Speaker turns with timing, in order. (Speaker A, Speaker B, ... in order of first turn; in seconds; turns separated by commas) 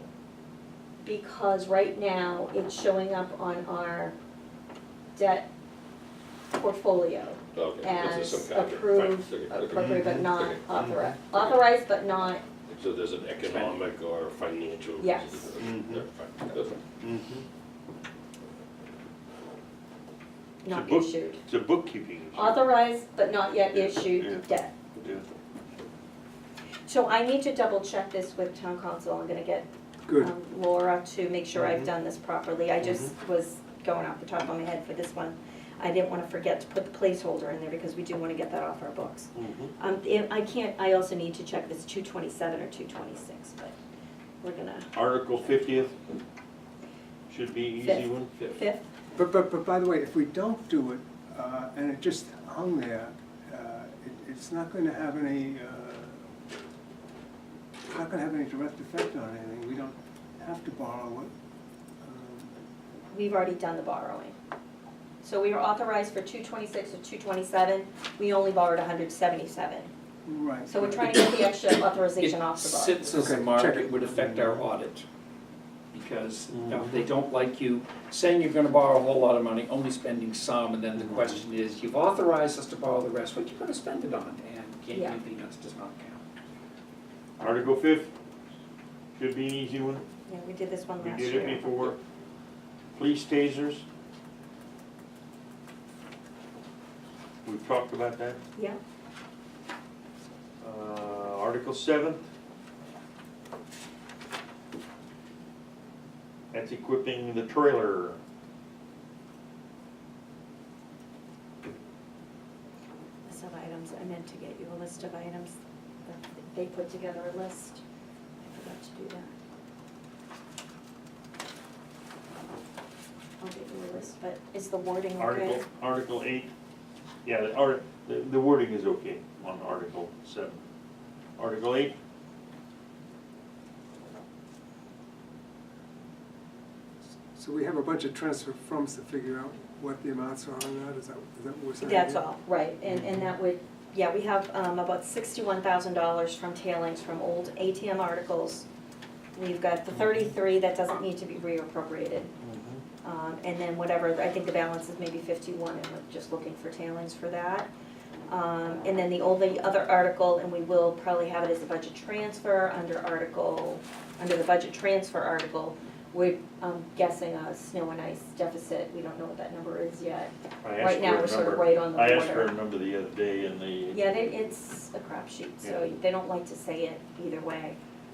Speaker A: 1.0-4.2, Speaker A: 5.1-5.5, Speaker A: 6.5-12.4, Speaker B: 7.5-11.5, Speaker C: 9.7-11.0, Speaker B: 12.7-16.8, Speaker C: 13.5-13.7, Speaker A: 15.0-15.5, Speaker C: 15.6-16.0, Speaker C: 17.0-17.4, Speaker A: 20.6-21.4, Speaker C: 20.7-22.7, Speaker A: 22.3-24.7, Speaker C: 23.7-24.4, Speaker C: 24.9-25.3, Speaker A: 26.9-43.8, Speaker D: 30.1-30.3, Speaker C: 31.6-31.9, Speaker C: 32.8-33.1, Speaker C: 39.3-39.7, Speaker A: 44.4-44.9, Speaker C: 44.9-45.9, Speaker C: 47.3-48.4, Speaker A: 47.8-48.9, Speaker D: 49.1-56.2, Speaker D: 57.9-61.3, Speaker D: 62.0-62.5, Speaker A: 63.1-64.3, Speaker A: 65.2-69.9, Speaker D: 70.2-71.1, Speaker A: 70.7-73.1, Speaker E: 72.2-75.0, Speaker D: 73.1-73.9, Speaker C: 74.2-74.6, Speaker E: 75.9-86.2, Speaker C: 76.5-77.0, Speaker A: 84.9-85.2, Speaker C: 87.4-88.1, Speaker C: 89.2-90.0, Speaker A: 90.2-91.9, Speaker C: 91.0-92.0, Speaker C: 92.9-93.8, Speaker C: 97.4-98.4, Speaker C: 100.6-102.2, Speaker C: 106.5-108.2, Speaker A: 113.2-117.8, Speaker A: 118.4-119.4, Speaker A: 123.4-125.6, Speaker C: 125.2-126.5, Speaker C: 127.2-130.6, Speaker C: 131.4-132.0, Speaker D: 137.3-142.3, Speaker A: 141.8-148.7, Speaker C: 142.9-143.3, Speaker A: 149.4-152.3, Speaker C: 149.9-150.3, Speaker C: 152.4-152.8, Speaker A: 153.0-157.7, Speaker A: 158.3-172.5, Speaker C: 170.6-174.1, Speaker A: 173.9-177.8